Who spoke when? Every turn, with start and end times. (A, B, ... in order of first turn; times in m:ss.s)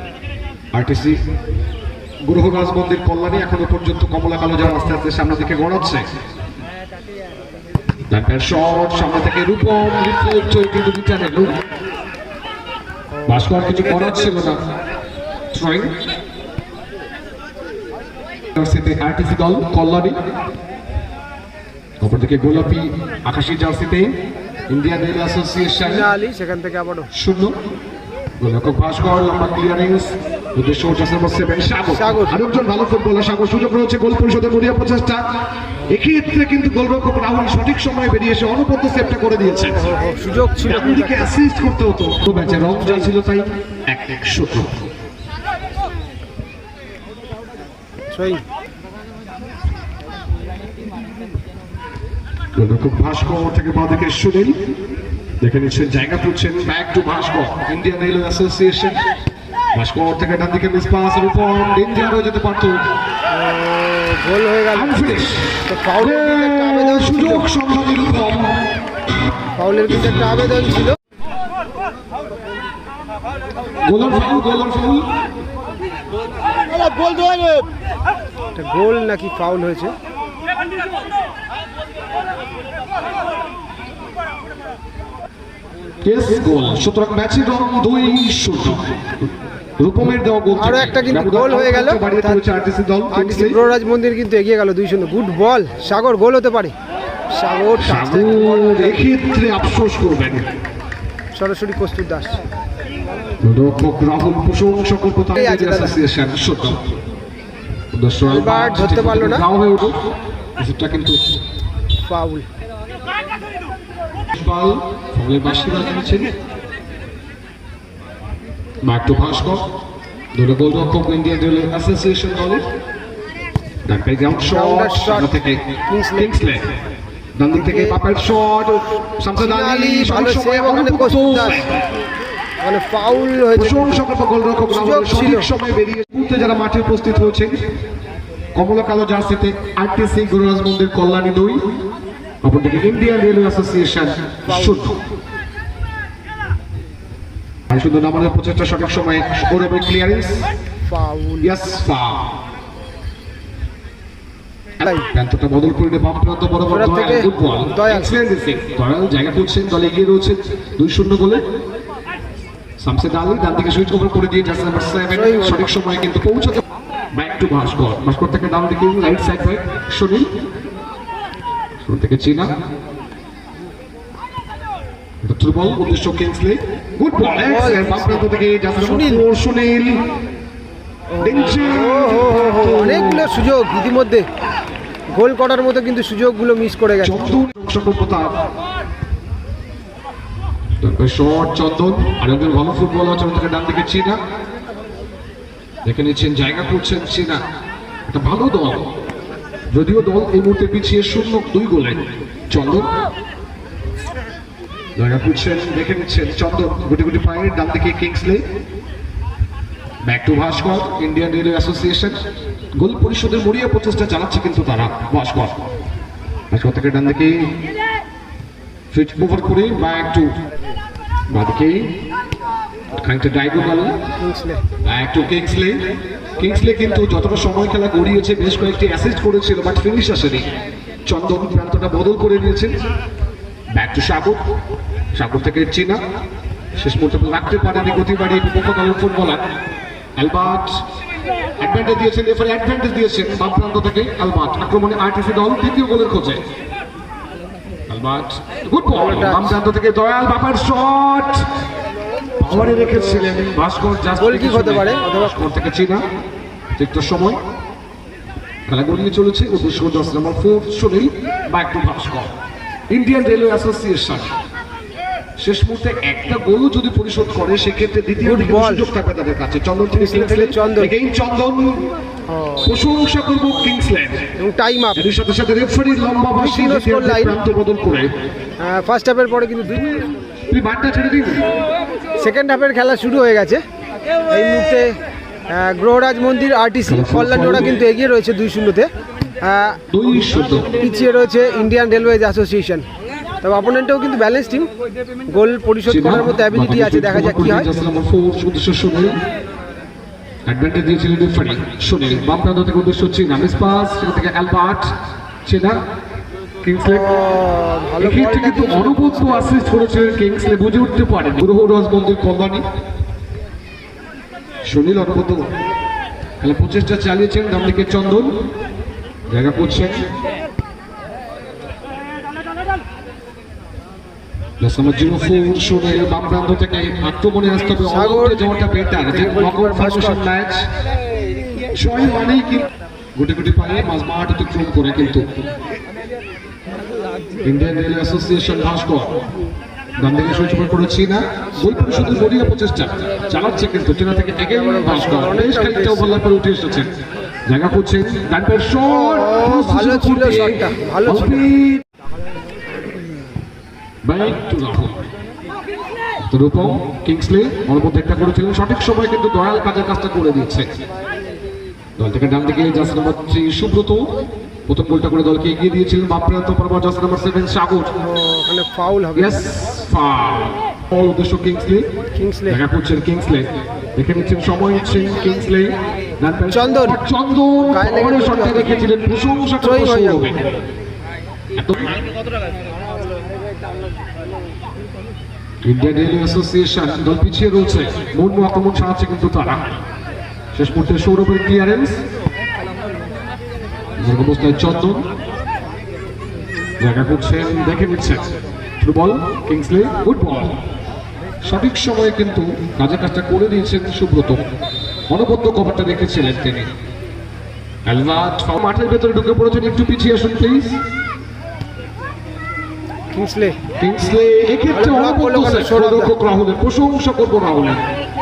0:00.7-0:01.2 A
0:02.2-0:06.0 A
0:08.1-0:11.5 A
0:13.2-0:14.6 A
0:15.5-0:15.9 A
0:18.5-0:20.2 A
0:22.0-0:24.2 A
0:24.7-0:26.1 A
0:25.8-0:27.1 B
0:27.1-0:27.5 A
0:28.4-0:35.2 A
0:31.9-0:32.4 B
0:35.9-0:39.9 A
0:39.5-0:41.3 B
0:40.6-0:44.7 A
0:48.1-0:48.4 B
0:52.6-0:54.6 A
0:55.4-0:59.0 A
0:59.8-1:02.8 A
1:03.3-1:05.1 B
1:04.7-1:08.6 A
1:05.7-1:07.5 B
1:09.6-1:11.0 B
1:13.8-1:15.1 A
1:18.5-1:19.9 B
1:26.0-1:29.1 A
1:29.8-1:33.6 A
1:30.6-1:32.4 B
1:33.1-1:36.7 B
1:37.3-1:39.1 B
1:37.8-1:40.4 A
1:41.3-1:42.4 B
1:43.4-1:46.8 A
1:45.3-1:46.0 B
1:47.9-1:50.0 A
1:48.3-1:49.4 B
1:50.6-1:51.2 A
1:52.1-1:52.4 B
1:54.3-1:56.3 A
1:58.8-1:59.6 A
2:00.3-2:02.6 A
2:03.8-2:05.6 A
2:04.5-2:05.3 B
2:05.9-2:06.3 B
2:06.2-2:06.7 A
2:07.4-2:11.8 A
2:07.5-2:08.0 B
2:09.4-2:11.6 B
2:12.6-2:14.0 B
2:13.5-2:17.6 A
2:14.7-2:15.5 B
2:18.5-2:21.6 A
2:22.4-2:25.0 A
2:24.5-2:24.8 B
2:27.7-2:30.4 A
2:30.8-2:31.5 B
2:31.4-2:32.2 A
2:34.8-2:41.4 A
2:34.8-2:35.1 B
2:36.7-2:38.1 B
2:42.8-2:50.3 A
2:45.1-2:45.6 B
2:51.8-2:52.5 A
2:55.2-3:00.0 A
2:57.3-2:58.2 B
2:58.8-2:59.2 B
3:01.1-3:04.3 B
3:01.2-3:03.3 A
3:05.1-3:07.3 B
3:07.0-3:08.3 A
3:10.8-3:14.2 A
3:15.8-3:17.4 A
3:18.1-3:18.8 A
3:19.7-3:22.9 A
3:25.0-3:28.4 A
3:30.0-3:32.2 A
3:32.8-3:35.6 A
3:36.5-3:37.3 A
3:38.9-3:40.3 A
3:41.3-3:41.9 A
3:43.0-3:43.9 A
3:44.2-3:44.6 B
3:44.8-3:45.8 A
3:46.4-3:50.4 A
3:51.0-3:52.8 A
3:53.7-3:54.4 A
3:55.1-3:56.0 A
3:56.8-3:59.4 A
4:00.2-4:00.7 A
4:01.6-4:06.4 A
4:07.9-4:11.5 A
4:08.9-4:09.6 B
4:12.4-4:16.0 A
4:12.5-4:13.3 B
4:14.2-4:15.3 B
4:16.8-4:17.4 A
4:18.7-4:22.3 A
4:22.9-4:24.3 A
4:25.4-4:31.9 A
4:28.2-4:28.9 B
4:29.9-4:30.9 B
4:32.3-4:32.7 B
4:32.6-4:34.3 A
4:34.4-4:35.0 B
4:34.9-4:38.1 A
4:36.4-4:37.4 B
4:38.6-4:40.1 B
4:40.5-4:41.4 A
4:42.2-4:43.6 B
4:44.3-4:44.9 B
4:45.5-4:48.9 B
4:46.8-4:47.8 A
4:49.4-4:49.8 B
4:49.9-4:50.7 A
4:50.8-4:52.9 B
4:53.4-4:54.7 B
4:55.3-4:57.7 B
4:55.9-4:59.1 A
5:00.5-5:04.9 A
5:05.5-5:05.8 A
5:06.6-5:07.1 A
5:06.9-5:09.6 B
5:08.0-5:12.6 A
5:14.6-5:15.4 A
5:16.4-5:18.3 A
5:19.3-5:20.1 A
5:24.6-5:30.7 A
5:27.8-5:28.4 B
5:29.1-5:30.3 B
5:31.7-5:35.2 A
5:37.4-5:39.2 A
5:40.0-5:46.9 A
5:44.5-5:46.1 B
5:47.5-5:51.8 A
5:48.8-5:51.4 B
5:54.0-5:55.0 A
5:56.3-6:00.7 A
6:02.0-6:04.0 A
6:04.7-6:07.9 A
6:08.0-6:09.5 B
6:09.1-6:11.9 A
6:12.2-6:12.6 B
6:12.5-6:20.4 A
6:16.5-6:17.0 B
6:17.6-6:18.8 B
6:19.6-6:20.3 B
6:21.6-6:21.9 A
6:25.6-6:29.6 A
6:30.5-6:32.0 A
6:34.0-6:35.0 A
6:36.8-6:38.3 A
6:38.8-6:40.6 A
6:41.4-6:44.4 A
6:45.1-6:46.7 A
6:47.9-6:50.8 A
6:53.1-6:53.6 B
6:53.8-6:57.8 A
6:54.7-6:56.1 B